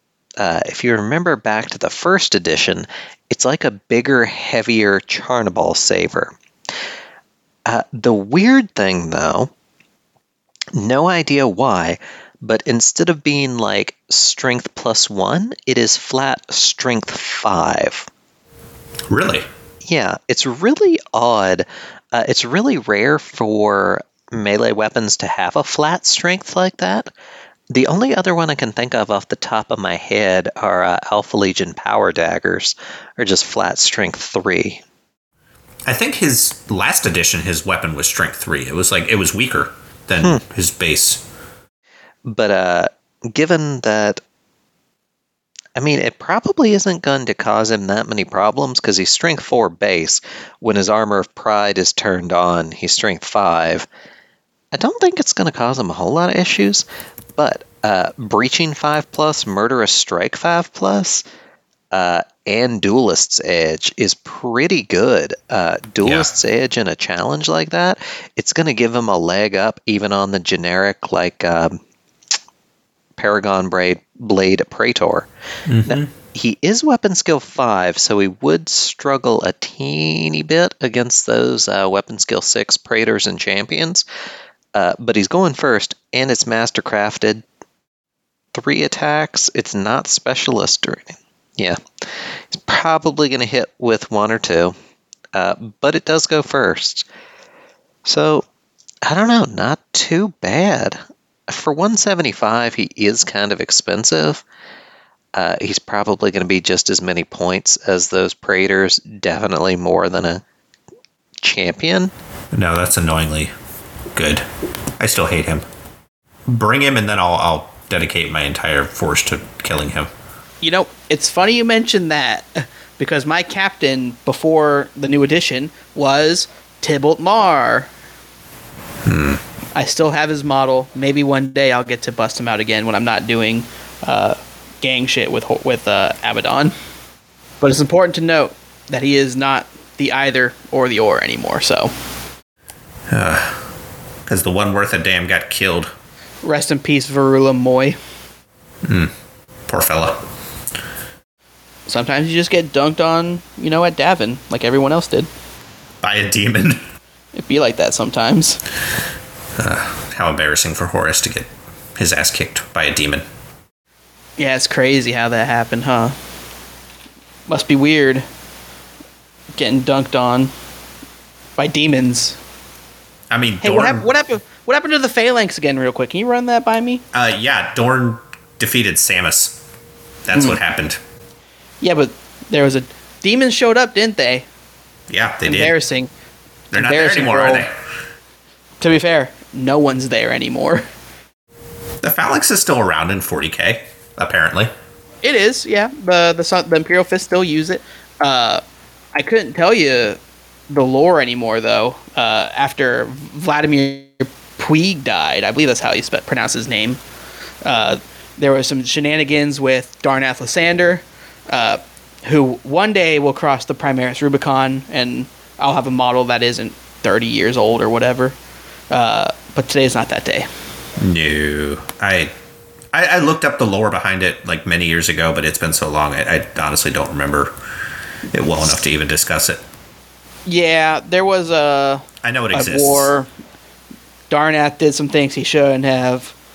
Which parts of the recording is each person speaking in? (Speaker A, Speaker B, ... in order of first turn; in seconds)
Speaker A: 0.4-6.3, 7.7-9.5, 10.7-18.1, 19.8-27.1, 27.7-34.8, 42.2-44.2, 45.7-53.9, 54.7-56.8, 57.4-61.2, 61.9-71.8, 73.2-75.3, 75.9-84.0, 84.7-87.4, 88.5-94.7, 95.3-97.0, 98.0-98.5, 99.0-104.4, 105.3-110.4, 111.4-112.1
Speaker B: 19.1-19.5, 35.9-41.2, 66.0-66.3, 75.7-76.1, 112.5-113.5, 114.1-114.5, 115.0-115.7, 116.5-120.1, 129.0-129.4, 143.1-143.6, 144.3-145.9, 148.8-149.1, 149.7-150.2, 156.0-156.8, 159.6-163.2, 173.3-174.1, 177.1-179.6, 180.3-181.0, 185.1-185.7, 186.7-187.7, 192.0-194.7, 221.0-222.3, 222.9-227.5, 228.3-229.6, 232.2-233.1
Speaker C: 120.6-127.9, 129.7-136.7, 137.6-141.9, 146.4-148.0, 151.9-155.3, 157.3-158.6, 164.4-166.1, 167.5-168.2, 169.6-170.5, 171.6-172.4, 173.6-177.0, 181.8-184.5, 185.4-186.1, 186.7-187.7, 188.8-190.8, 195.2-198.6, 199.1-200.2, 200.7-207.0, 207.6-218.4, 218.9-220.5, 230.4-233.3, 234.3-236.3